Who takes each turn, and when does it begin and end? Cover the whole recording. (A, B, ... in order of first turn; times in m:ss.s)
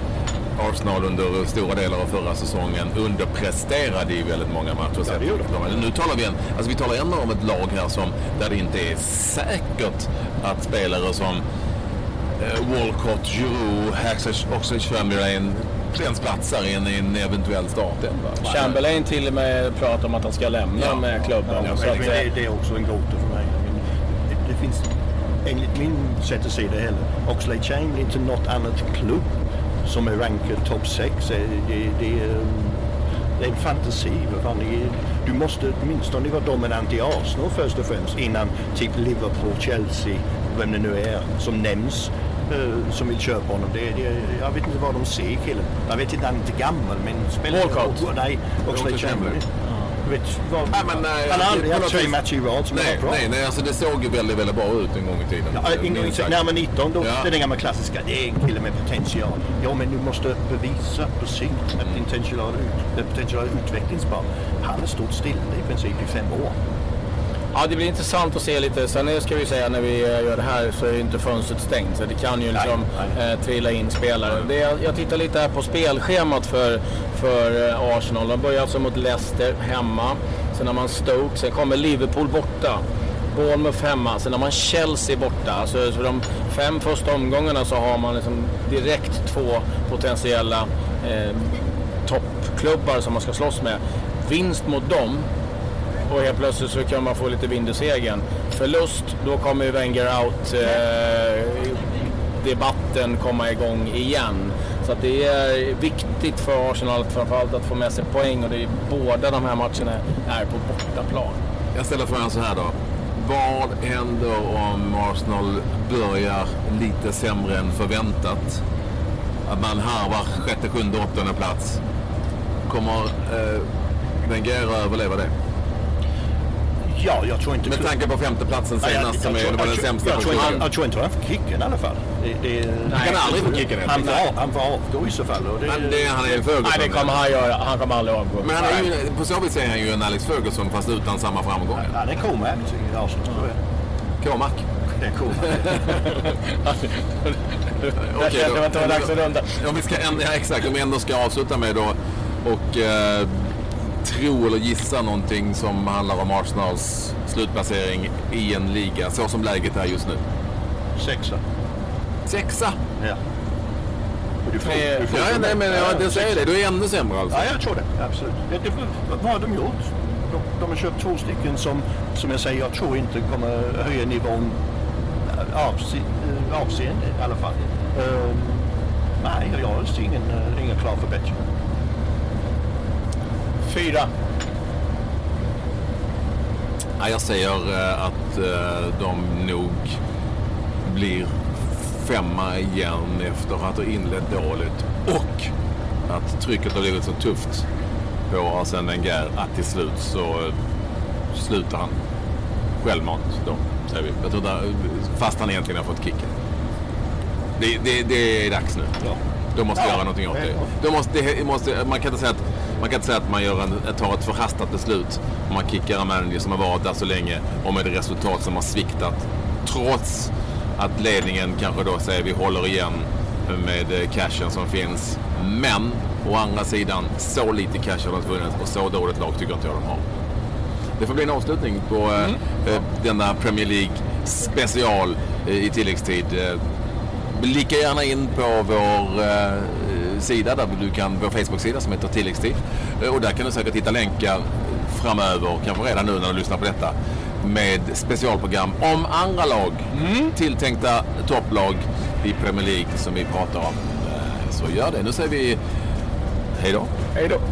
0:00.6-0:11.4 A
0:05.0-0:05.5 B
0:12.4-0:18.8 A
0:18.4-0:22.2 C
0:20.8-0:21.9 A
0:21.6-0:24.8 B
0:25.4-0:29.3 B
0:29.8-0:32.8 B
0:33.4-0:49.4 B
0:47.5-0:48.0 C
0:48.7-0:49.4 A
0:50.0-0:53.2 B
0:50.7-0:52.2 A
0:52.7-0:56.4 A
0:55.5-1:06.5 B
0:57.0-0:57.3 A
1:07.5-1:22.8 C
1:23.3-1:35.3 C
1:36.1-1:51.4 C
1:51.7-1:58.6 A
1:59.4-2:01.8 A
2:02.7-2:03.6 A
2:04.2-2:05.3 A
2:06.8-2:07.9 B
2:07.6-2:10.6 A
2:08.8-2:16.1 B
2:12.9-2:13.2 C
2:12.9-2:14.3 A
2:15.6-2:17.2 A
2:16.6-2:18.8 C
2:18.4-2:21.9 A
2:21.8-2:23.6 B
2:24.2-2:24.6 A
2:25.0-2:25.9 B
2:25.8-2:29.6 C
2:28.0-2:33.3 A
2:34.0-2:40.2 A
2:41.0-2:41.4 B
2:42.2-2:42.8 A
2:44.4-2:46.4 B
2:44.6-2:45.0 C
2:45.0-2:47.4 A
2:47.3-2:54.6 B
2:55.3-2:58.7 B
2:59.2-3:01.4 B
3:03.6-3:04.1 C
3:07.0-3:09.9 A
3:10.8-3:15.5 A
3:16.1-3:17.6 A
3:18.3-3:20.5 A
3:21.3-3:21.9 A
3:22.8-3:26.3 A
3:27.6-3:28.9 A
3:29.6-3:50.0 A
3:29.7-3:30.7 B
3:51.0-3:56.6 A
3:57.3-4:15.6 A
4:10.0-4:10.3 C
4:16.6-4:16.9 A